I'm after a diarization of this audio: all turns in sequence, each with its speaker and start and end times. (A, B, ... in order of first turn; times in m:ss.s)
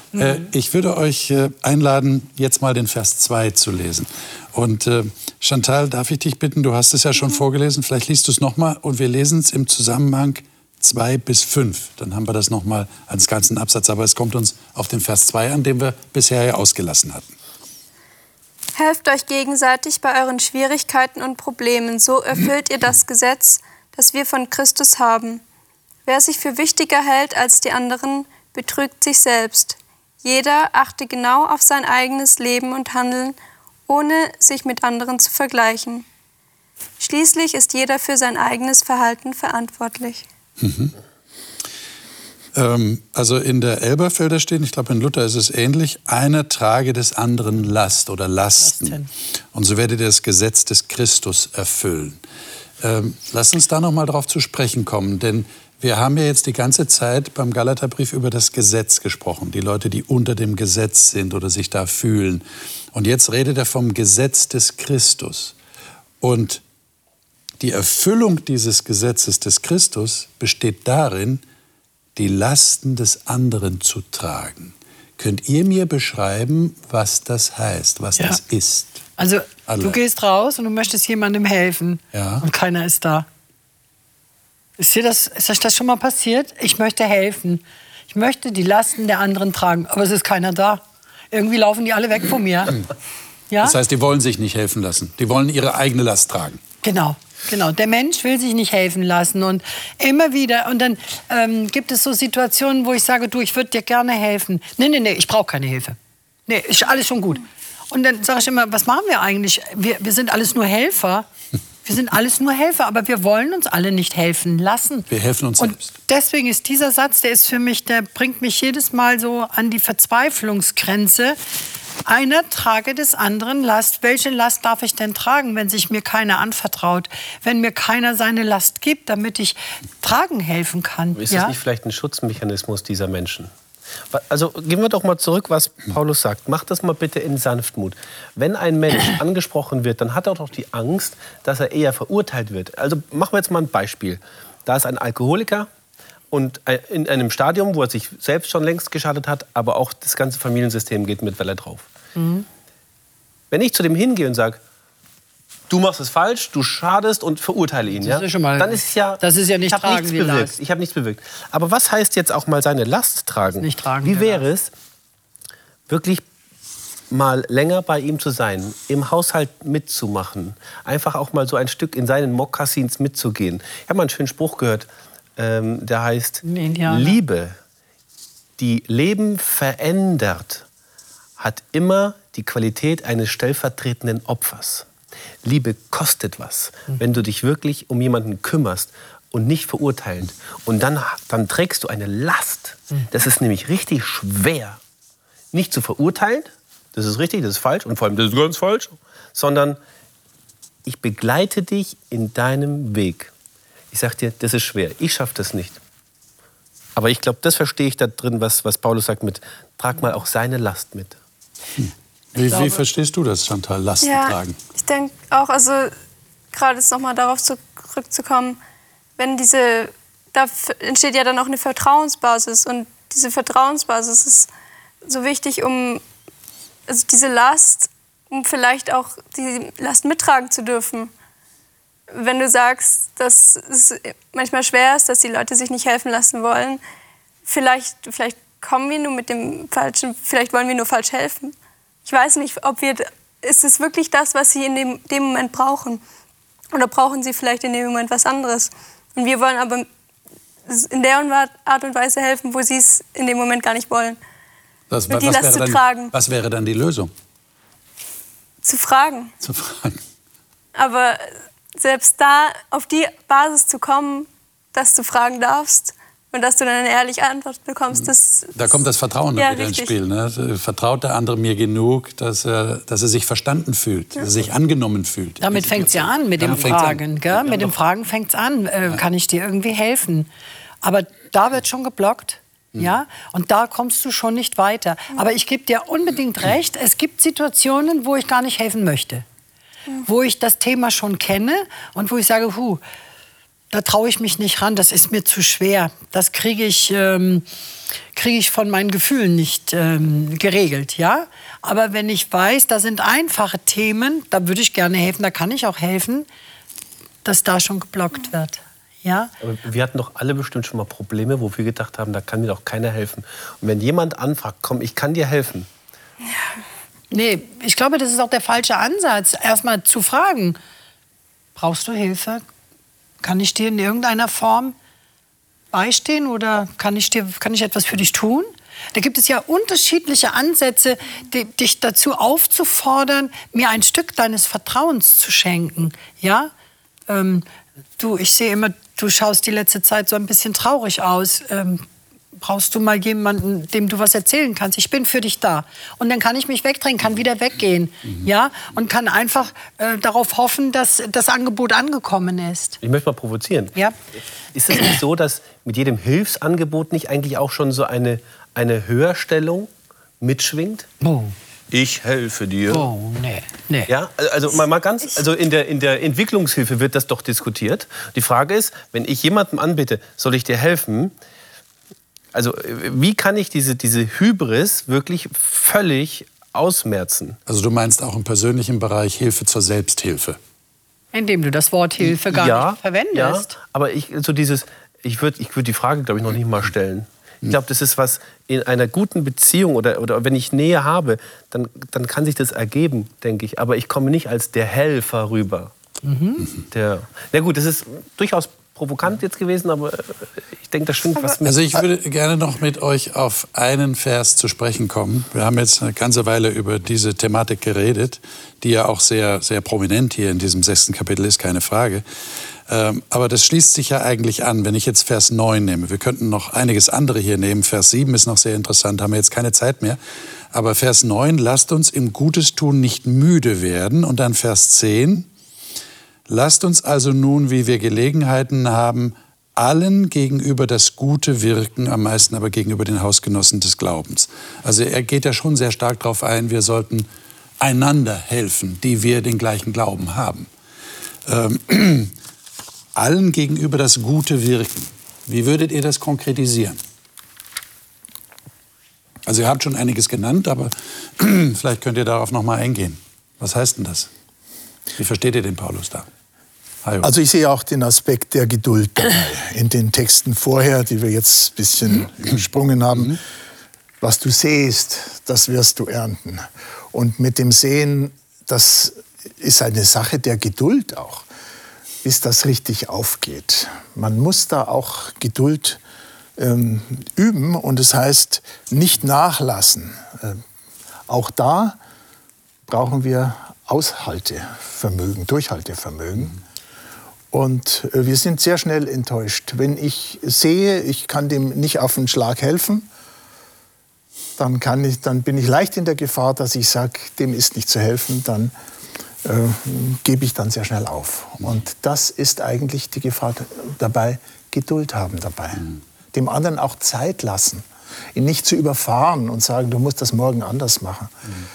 0:00.1-0:17.3 A
0:18.8-0:25.4 B
0:26.0-0:33.4 B
0:33.9-0:36.0 B
0:37.0-0:40.2 B
0:40.6-0:40.9 A
0:42.5-0:49.0 A
0:48.6-0:49.1 C
0:49.5-0:52.2 A
0:52.8-1:05.5 A
1:06.2-1:06.6 A
1:07.6-1:11.4 A
1:12.2-1:19.0 A
1:19.2-1:23.2 C
1:19.7-1:20.0 A
1:22.1-1:22.4 A
1:24.8-1:32.8 C
1:33.5-1:33.8 C
1:33.6-1:36.6 A
1:36.8-1:51.2 C
1:51.8-2:01.4 C
1:55.1-1:55.9 A
2:02.0-2:11.5 C
2:11.1-2:13.5 D
2:14.1-2:25.7 D
2:26.3-2:31.9 D
2:32.1-2:32.4 C
2:33.5-2:34.6 D
2:35.7-2:44.7 D
2:38.0-2:40.5 C
2:43.6-2:44.4 C
2:45.9-2:46.2 D
2:47.1-2:57.6 D
2:56.4-2:57.2 C
2:58.6-3:00.6 D
3:01.4-3:04.9 D
3:05.4-3:14.8 D
3:15.5-3:19.8 D
3:20.8-3:23.3 D
3:23.9-3:25.8 D
3:27.0-3:31.2 D
3:31.8-3:34.6 A
3:34.0-3:35.9 B
3:36.5-3:38.6 B
3:39.2-3:44.5 B
3:45.0-3:46.0 B
3:46.9-3:51.1 B
3:52.1-3:56.8 B
3:57.4-4:01.5 B
4:02.0-4:06.0 B
4:06.7-4:09.9 B
4:10.7-4:14.2 B
4:14.9-4:17.1 A
4:15.1-4:16.1 B
4:18.6-4:19.3 B
4:19.4-4:20.0 A
4:20.7-4:21.2 B
4:21.7-4:28.8 B
4:27.9-4:37.0 A
4:29.4-4:29.9 B
4:35.4-4:40.3 C
4:40.8-4:49.2 C
4:50.0-4:52.8 C
4:53.7-4:57.4 C
4:58.1-5:06.3 C
5:07.2-5:09.3 C
5:09.4-5:15.7 D
5:17.1-5:20.6 C
5:21.6-5:22.4 C
5:23.2-5:24.8 C
5:25.7-5:36.5 C
5:37.1-5:37.4 C
5:38.0-5:41.8 C
5:42.4-5:52.8 C
5:52.8-5:53.7 D
5:54.5-5:59.7 D
6:00.2-6:00.9 D
6:01.0-6:01.3 C
6:01.7-6:02.8 D
6:02.7-6:03.9 C
6:03.9-6:11.1 D
6:12.3-6:17.4 D
6:17.5-6:20.4 A
6:21.1-6:23.5 C
6:22.3-6:35.7 D
6:36.0-6:36.5 C
6:36.7-6:41.8 D
6:41.4-6:52.0 A
6:52.7-7:00.0 A
7:00.5-7:05.3 A
7:06.3-7:17.1 A
7:17.6-7:20.5 A
7:21.2-7:22.1 A
7:22.9-7:26.8 A
7:29.2-7:34.1 A
7:35.0-7:36.1 A
7:36.8-7:37.1 A
7:37.0-7:43.2 E
7:44.0-7:51.2 E
7:52.0-7:55.8 E
7:56.4-8:00.4 E
8:01.1-8:01.8 E
8:02.7-8:06.4 E
8:07.3-8:12.9 E
8:14.4-8:18.5 E
8:19.2-8:31.3 E